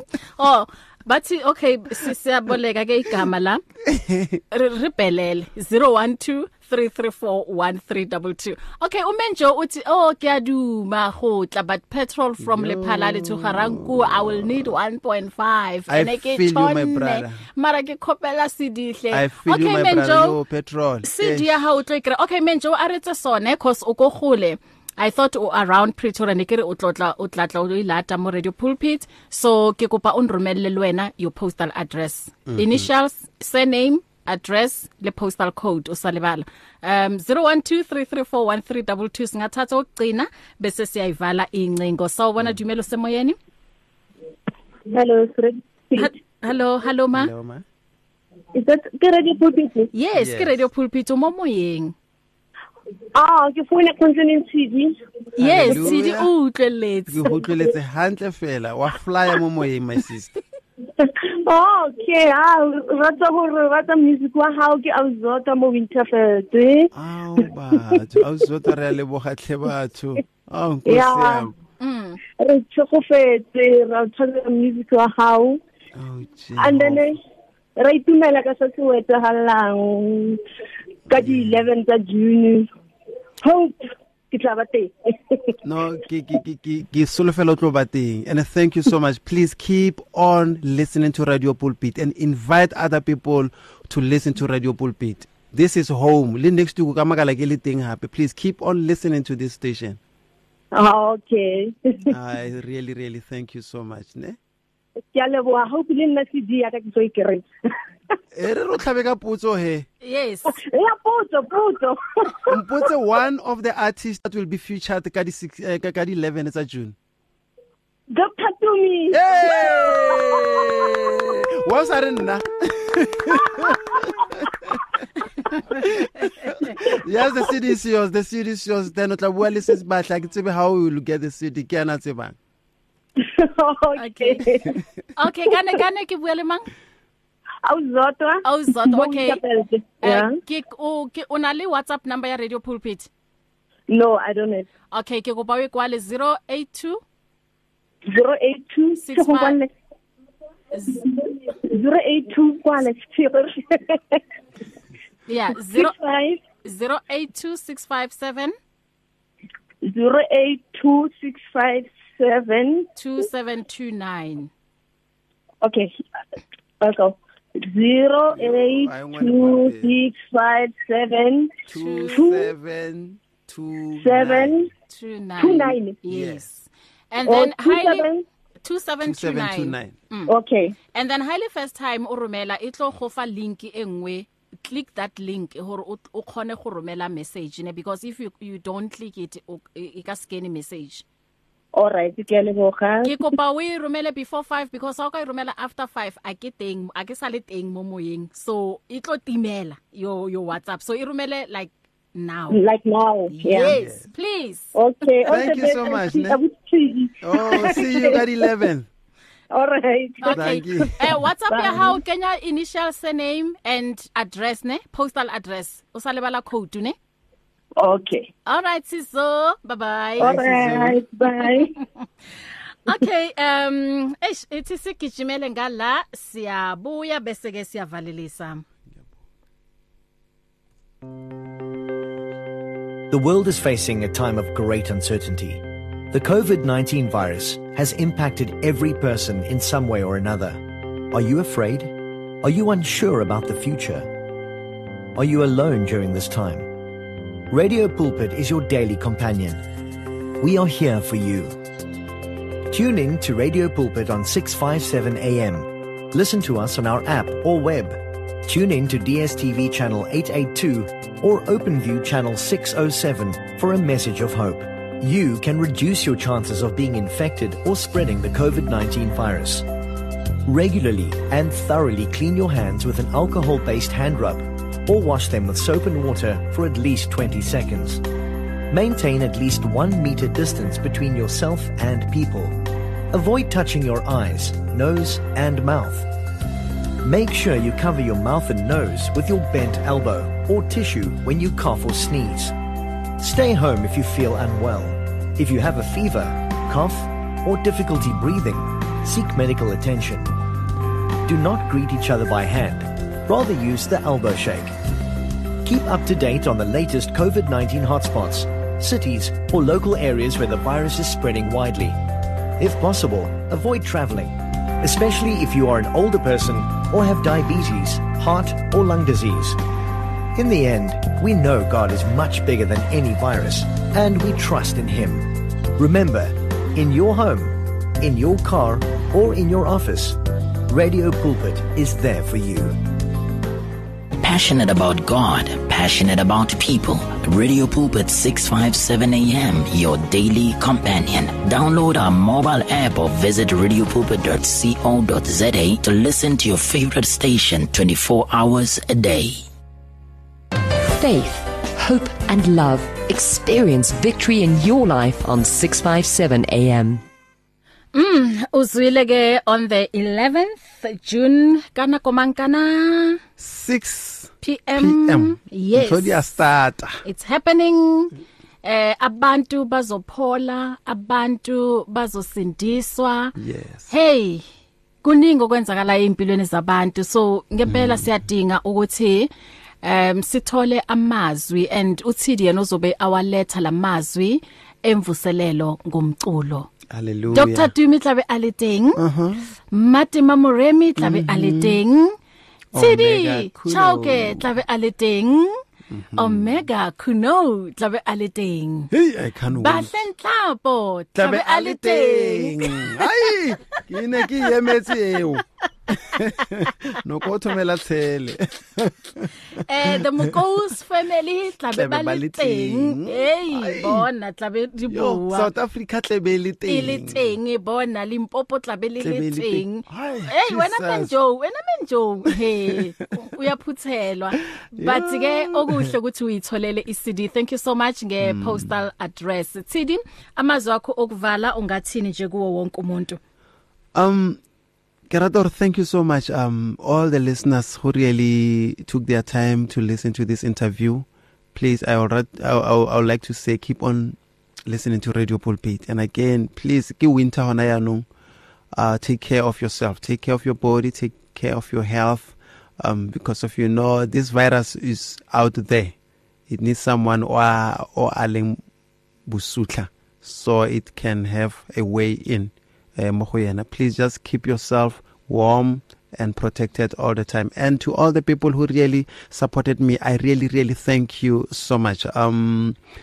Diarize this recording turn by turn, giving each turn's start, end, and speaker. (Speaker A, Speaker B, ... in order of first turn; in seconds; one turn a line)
Speaker A: 0.4-3.6
Speaker B: 3.9-4.4
Speaker A: 4.5-20.4
Speaker B: 12.4-14.4
Speaker B: 15.9-17.4
Speaker B: 19.1-21.6
Speaker A: 21.0-43.4
Speaker B: 32.5-32.9
Speaker C: 44.9-46.1
Speaker A: 46.0-47.3
Speaker B: 47.1-47.6
Speaker C: 48.5-49.9
Speaker A: 49.9-52.0
Speaker B: 50.1-50.7
Speaker C: 53.1-55.0
Speaker A: 55.4-57.3
Speaker B: 55.4-56.3
Speaker B: 57.1-60.4
Speaker C: 61.0-66.9
Speaker B: 66.9-71.5
Speaker C: 70.9-71.5
Speaker A: 71.8-72.2
Speaker C: 72.4-75.6
Speaker B: 76.0-77.0
Speaker C: 76.6-77.2
Speaker C: 77.8-80.4
Speaker C: 81.1-82.7
Speaker B: 81.1-81.7
Speaker C: 83.4-85.6
Speaker B: 85.6-100.0
Speaker C: 100.7-102.1
Speaker B: 102.1-104.4
Speaker C: 105.1-107.5
Speaker B: 108.3-109.9
Speaker A: 110.0-110.6
Speaker C: 110.5-112.6
Speaker B: 112.5-117.0
Speaker C: 118.1-121.1
Speaker B: 119.1-125.0
Speaker C: 123.6-124.0
Speaker B: 125.7-132.4
Speaker A: 126.2-126.8
Speaker C: 133.2-134.8
Speaker A: 134.0-134.6
Speaker A: 135.2-136.7
Speaker C: 137.6-140.3
Speaker A: 138.4-139.4
Speaker A: 140.0-143.1
Speaker C: 143.9-144.7
Speaker A: 144.9-147.0
Speaker C: 148.1-149.7
Speaker A: 149.0-149.6
Speaker A: 150.7-151.0
Speaker C: 150.9-154.2
Speaker A: 155.3-155.9
Speaker C: 155.6-156.4
Speaker A: 156.6-158.6
Speaker C: 159.8-162.9
Speaker A: 163.0-164.5
Speaker C: 165.6-165.9
Speaker C: 166.8-171.6
Speaker B: 168.3-169.9
Speaker B: 171.7-174.6
Speaker A: 171.7-172.3
Speaker C: 172.1-172.5
Speaker C: 174.0-174.7
Speaker A: 174.9-178.1
Speaker C: 175.4-176.0
Speaker B: 176.1-176.5
Speaker C: 177.2-178.2
Speaker A: 178.6-180.3
Speaker B: 179.0-180.0
Speaker C: 180.3-180.8
Speaker A: 180.9-191.0
Speaker C: 191.7-193.2
Speaker A: 193.0-202.6
Speaker C: 202.5-203.8
Speaker A: 203.3-204.7
Speaker B: 203.7-204.1
Speaker C: 204.7-208.5
Speaker B: 205.2-206.4
Speaker B: 207.2-208.9
Speaker C: 209.5-210.9
Speaker A: 210.2-217.0
Speaker B: 210.3-211.2
Speaker C: 211.5-212.0
Speaker C: 217.8-218.3
Speaker A: 218.4-220.4
Speaker B: 220.2-221.1
Speaker C: 220.2-221.7
Speaker A: 222.9-228.7
Speaker D: 233.1-244.1
Speaker D: 245.2-246.7
Speaker D: 247.5-249.6
Speaker D: 250.4-251.6
Speaker D: 252.7-269.7
Speaker D: 270.5-278.0
Speaker D: 278.7-282.6
Speaker D: 283.1-286.1
Speaker D: 287.0-292.6
Speaker D: 293.2-300.4
Speaker D: 301.2-304.8
Speaker D: 305.6-312.0
Speaker D: 312.6-319.6
Speaker D: 320.4-332.8
Speaker E: 334.2-349.4
Speaker F: 350.8-357.0
Speaker A: 357.9-363.2
Speaker B: 363.4-367.0
Speaker A: 364.4-366.3
Speaker A: 367.0-373.4
Speaker B: 373.4-373.9
Speaker A: 373.9-374.4
Speaker A: 375.0-379.3
Speaker B: 377.7-378.1
Speaker A: 379.8-386.7
Speaker B: 386.9-387.7
Speaker A: 387.3-389.0
Speaker B: 389.0-389.4
Speaker A: 389.7-392.1
Speaker B: 391.0-391.8
Speaker B: 392.7-394.6
Speaker A: 392.8-395.6
Speaker B: 395.9-396.6
Speaker A: 396.2-398.9
Speaker B: 398.9-400.1
Speaker A: 399.5-403.1
Speaker B: 401.1-410.4
Speaker A: 409.6-415.5
Speaker B: 411.7-414.1
Speaker B: 414.9-417.3
Speaker A: 416.7-433.2
Speaker B: 419.0-421.1
Speaker B: 422.3-422.8
Speaker B: 424.8-425.9
Speaker B: 428.2-428.7
Speaker B: 433.9-434.4
Speaker B: 435.1-448.1
Speaker B: 448.7-455.9
Speaker B: 456.5-458.6
Speaker B: 459.3-472.8